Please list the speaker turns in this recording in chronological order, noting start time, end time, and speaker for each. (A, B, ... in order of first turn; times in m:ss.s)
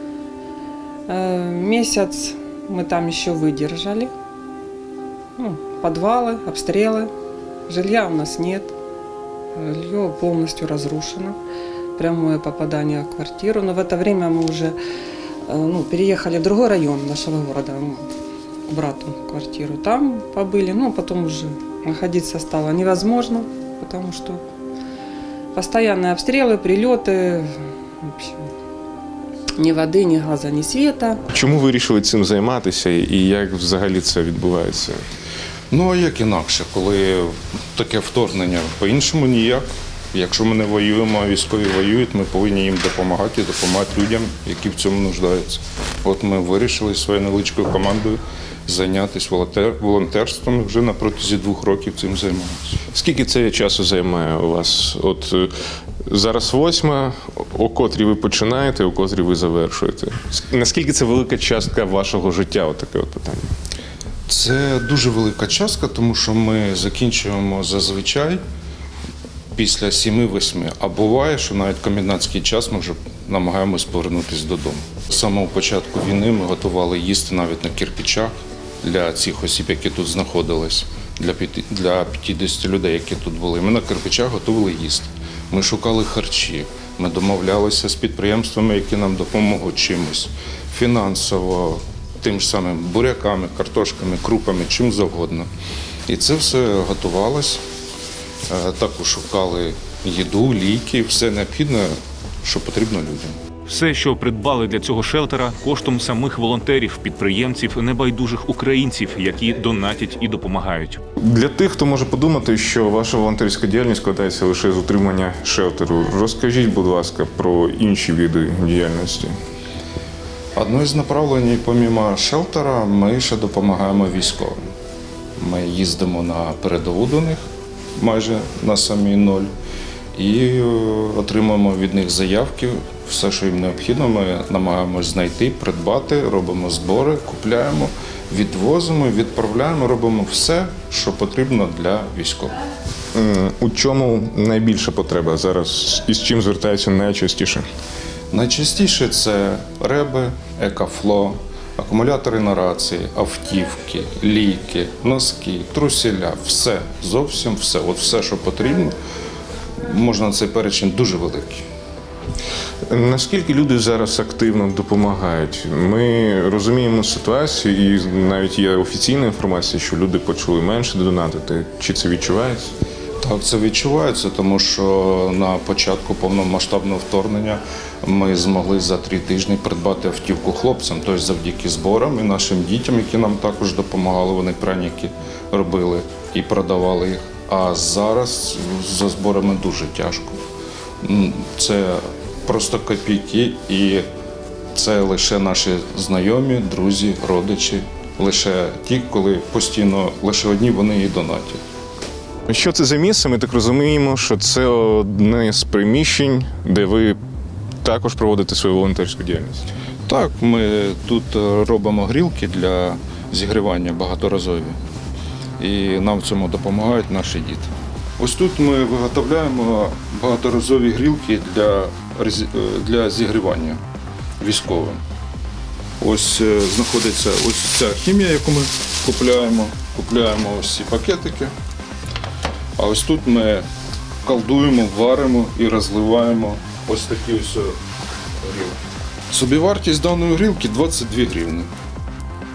0:01.1-0:04.1 A
0:05.4-0:07.1 A
0:07.7-0:08.7 A
0:09.6-0:11.4 A
0:12.0-0:14.8 A
0:15.5-0:18.1 A
0:18.7-0:24.4 A
0:25.5-0:28.5 A
0:29.6-0:31.2 A
0:31.3-0:35.0 B
0:35.7-0:52.8 C
0:52.9-0:55.5 B
0:56.1-1:03.5 B
1:04.3-1:08.4 C
1:09.6-1:35.5 C
1:36.1-1:37.6 C
1:38.5-1:43.4 C
1:43.7-1:51.0 D
1:51.2-1:59.3 B
2:00.6-2:04.6 C
2:05.4-2:07.4 C
2:08.0-2:09.5 C
2:10.2-2:22.6 C
2:23.1-2:27.6 B
2:28.3-2:39.0 C
2:39.8-2:41.6 C
2:42.9-2:52.7 B
2:53.2-3:10.4 C
3:11.0-3:14.1 C
3:14.7-3:21.6 C
3:22.5-3:27.2 B
3:27.8-3:29.7 B
3:30.1-3:34.8 C
3:35.6-3:43.8 C
3:44.4-3:45.0 C
3:46.0-3:51.5 C
3:52.8-3:53.6 C
3:54.2-3:57.8 C
3:58.4-3:58.8 C
3:59.3-4:01.7 C